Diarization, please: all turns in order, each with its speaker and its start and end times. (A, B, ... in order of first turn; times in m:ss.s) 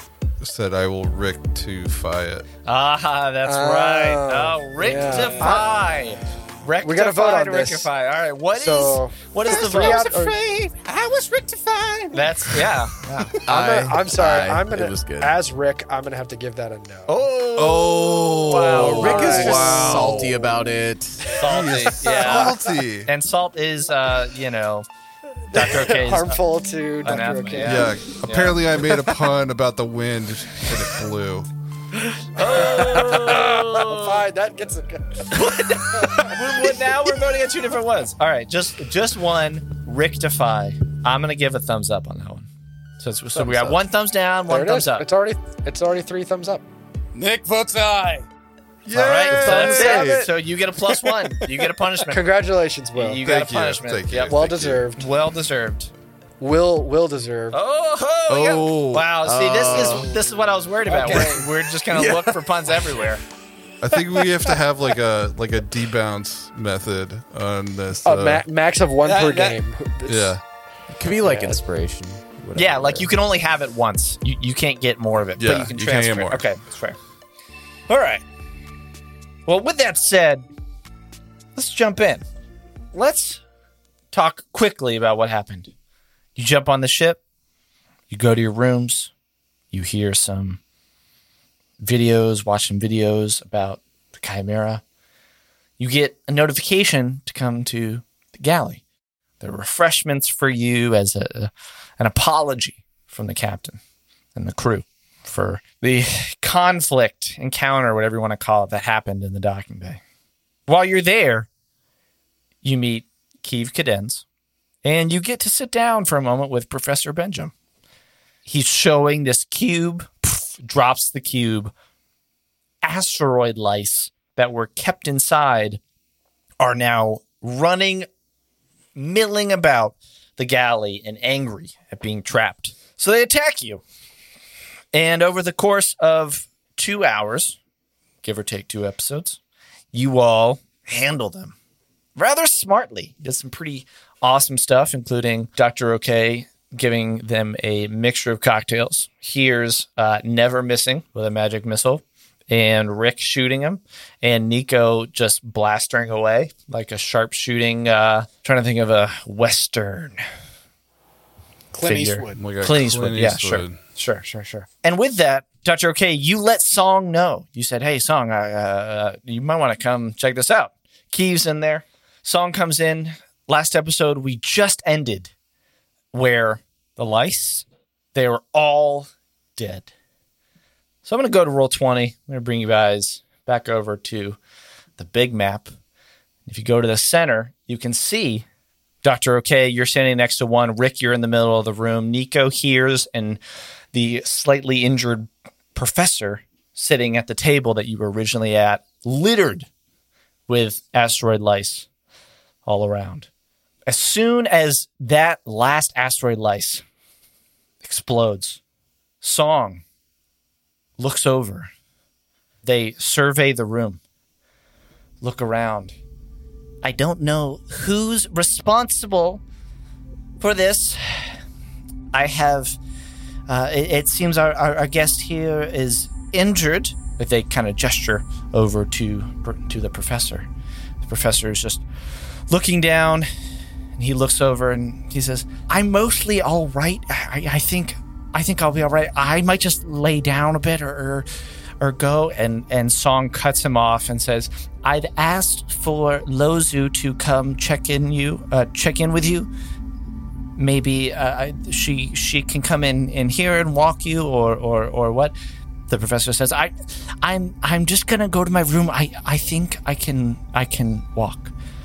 0:00.4-0:02.4 A
0:02.6-0:10.3 B
0:03.4-0:05.8 C
0:05.1-0:05.6 D
0:06.8-0:07.9 C
0:08.5-0:10.4 C
0:09.6-0:12.1 D
0:12.1-0:13.4 B
0:13.3-0:17.2 C
0:13.4-0:15.3 E
0:17.1-0:19.7 B
0:17.5-0:20.6 A
0:18.7-0:21.4 E
0:18.7-0:20.2 C
0:21.3-0:24.8 B
0:21.4-0:23.1 A
0:22.0-0:22.6 C
0:25.5-0:28.0 C
0:25.5-0:26.4 B
0:27.0-0:28.6 B
0:27.6-0:31.5 A
0:32.3-0:34.2 B
0:32.4-0:36.9 C
0:35.3-0:42.5 B
0:43.0-0:45.1 B
0:43.3-0:43.8 C
0:44.5-0:46.6 C
0:47.1-0:48.2 D
0:48.8-0:50.3 A
0:48.9-0:52.2 B
0:49.3-0:50.2 C
0:52.1-0:53.2 C
0:52.9-0:54.4 B
0:53.2-0:54.8 A
0:54.3-0:55.1 C
0:54.9-0:55.9 B
0:56.4-0:57.6 C
0:57.5-1:03.2 B
0:58.3-0:59.8 A
0:59.2-1:00.1 E
1:00.8-1:01.4 D
1:01.0-1:01.4 C
1:03.8-1:08.4 A
1:08.0-1:10.4 C
1:09.0-1:09.6 D
1:10.0-1:10.4 A
1:10.9-1:13.1 E
1:11.2-1:11.6 C
1:12.5-1:17.0 B
1:15.4-1:16.5 A
1:17.9-1:18.2 B
1:19.4-1:20.5 B
1:21.6-1:22.2 B
1:22.9-1:23.4 B
1:24.1-1:25.7 B
1:26.4-1:27.2 B
1:28.1-1:29.1 B
1:29.7-1:30.6 B
1:31.8-1:34.8 B
1:35.8-1:38.8 B
1:39.4-1:43.8 B
1:44.3-1:50.0 B
1:50.7-1:51.5 B
1:52.6-1:54.2 B
1:54.8-1:57.5 B
1:58.4-2:01.7 B
2:02.8-2:05.8 B
2:06.6-2:08.1 B
2:08.9-2:13.8 B
2:14.9-2:17.6 B
2:18.2-2:19.4 B
2:19.9-2:21.5 B
2:22.2-2:40.2 B
2:41.7-2:42.4 D
2:41.8-2:55.3 B
2:42.4-2:43.8 A
2:56.1-2:59.9 B
3:01.0-3:04.4 B
3:05.0-3:05.7 B
3:06.5-3:08.4 B
3:09.0-3:13.4 B
3:13.9-3:19.7 B
3:20.5-3:21.9 B
3:22.6-3:23.3 B
3:23.9-3:26.8 B
3:27.8-3:28.6 B
3:29.2-3:29.8 B
3:31.0-3:31.7 B
3:32.6-3:34.0 B
3:35.2-3:35.9 B
3:36.8-3:39.4 B
3:40.4-3:41.4 B
3:42.1-3:42.8 B
3:43.5-3:50.5 B
3:51.0-3:51.8 B
3:52.5-3:53.3 B
3:54.0-4:01.3 B
4:01.8-4:09.5 B
4:10.6-4:15.3 B
4:15.9-4:21.5 B